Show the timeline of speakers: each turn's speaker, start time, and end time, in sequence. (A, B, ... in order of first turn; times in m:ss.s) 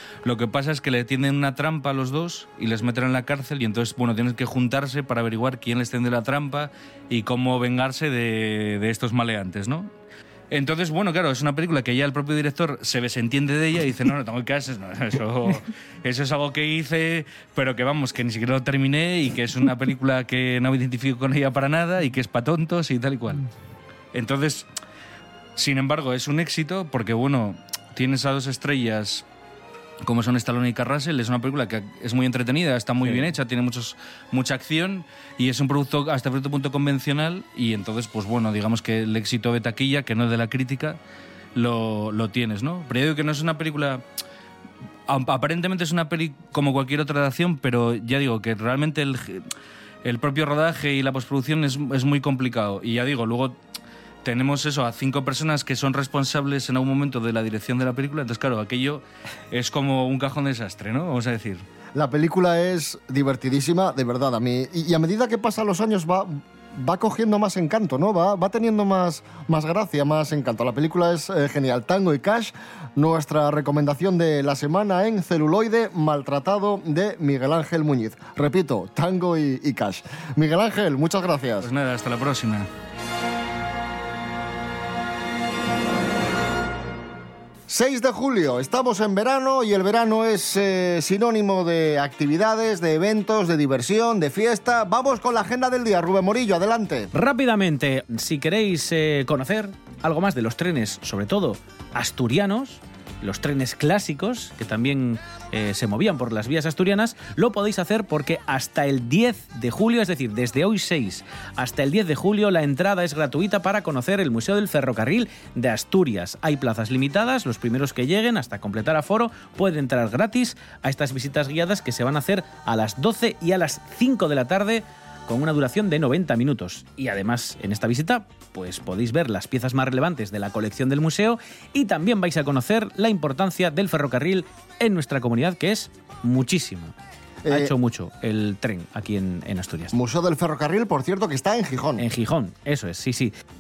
0:00.2-0:09.9 A
0:10.5-0:23.4 A
0:24.1-0:24.7 A
0:25.6-0:29.2 A
0:30.0-0:41.0 A
0:33.0-0:33.3 B
0:41.6-0:44.0 A
0:45.1-0:49.4 A
0:50.0-0:53.6 A
0:54.2-1:01.6 A
1:02.0-1:21.7 C
1:21.6-1:22.7 A
1:27.7-1:37.1 C
1:37.1-2:16.9 B
2:17.4-2:17.7 C
2:17.5-2:20.0 B
2:19.9-2:22.0 C
2:22.0-2:23.3 B